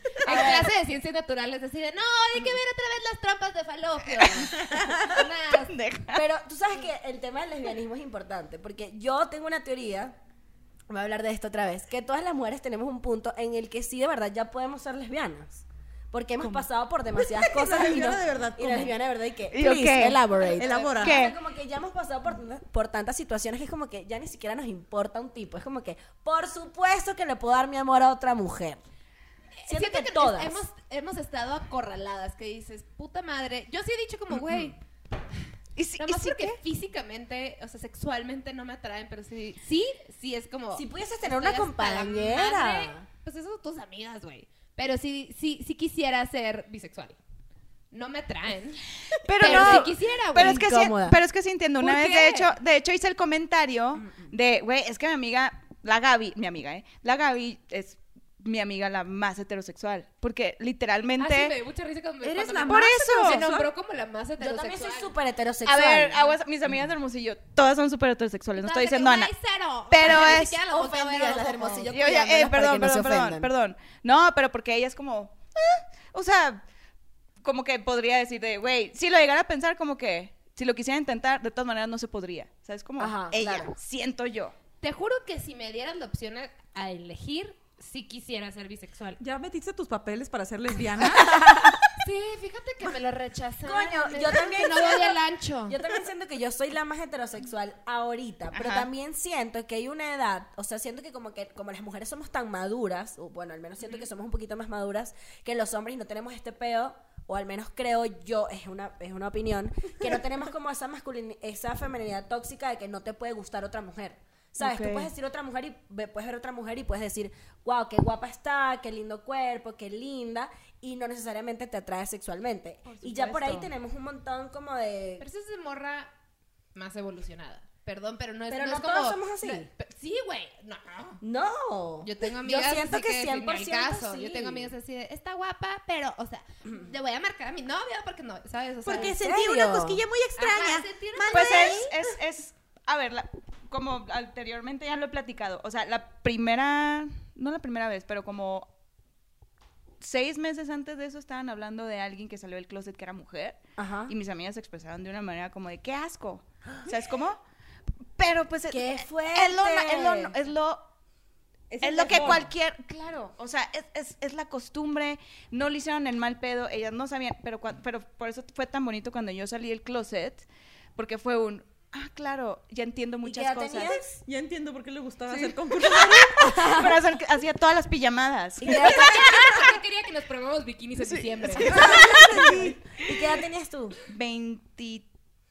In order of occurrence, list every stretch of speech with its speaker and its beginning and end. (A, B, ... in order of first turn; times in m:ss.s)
0:00.2-0:00.7 A
0:00.2-0:05.7 B
0:04.2-0:04.8 C
0:04.7-0:05.0 D
0:05.5-0:06.2 C
0:06.1-0:10.2 A
0:10.9-0:28.8 A
0:17.2-0:18.9 D
0:19.5-0:21.4 C
0:20.6-0:21.2 D
0:29.6-0:34.8 B
0:29.7-0:30.6 A
0:35.8-0:36.6 C
0:36.0-0:47.2 B
0:40.7-0:43.0 A
0:47.9-0:48.8 B
0:49.2-1:01.6 C
0:49.4-0:50.6 B
0:49.4-0:51.2 A
0:51.8-0:52.5 B
1:01.2-1:05.1 B
1:02.2-1:03.7 D
1:02.6-1:03.4 C
1:04.4-1:06.2 A
1:05.6-1:09.3 C
1:08.6-1:12.1 B
1:09.9-1:10.6 C
1:10.1-1:13.5 A
1:11.9-1:16.6 C
1:17.4-1:24.6 C
1:23.0-1:23.7 A
1:24.8-1:29.2 B
1:29.2-1:31.8 D
1:32.0-1:35.8 B
1:33.6-2:05.2 A
1:38.5-1:38.9 C
1:54.6-1:55.1 C
2:02.9-2:03.7 C
2:05.2-2:06.1 B
2:06.8-2:11.2 B
2:08.5-2:09.7 A
2:11.2-2:14.7 A
2:12.0-2:19.2 B
2:18.9-2:20.0 A
2:18.9-2:28.7 C
2:20.4-2:21.9 B
2:20.4-2:20.8 D
2:21.3-2:22.1 A
2:30.0-2:37.4 C
2:33.8-2:34.1 A
2:38.2-2:40.8 C
2:38.7-2:40.3 A
2:41.7-2:42.5 D
2:41.8-2:54.0 C
2:42.2-2:42.4 A
2:53.2-2:54.2 A
2:54.2-2:56.6 D
2:55.3-2:59.7 C
2:56.4-2:57.0 A
2:58.6-2:59.6 A
2:58.6-3:01.8 B
3:01.0-3:03.2 C
3:01.6-3:02.8 D
3:01.6-3:04.0 A
3:04.1-3:05.1 C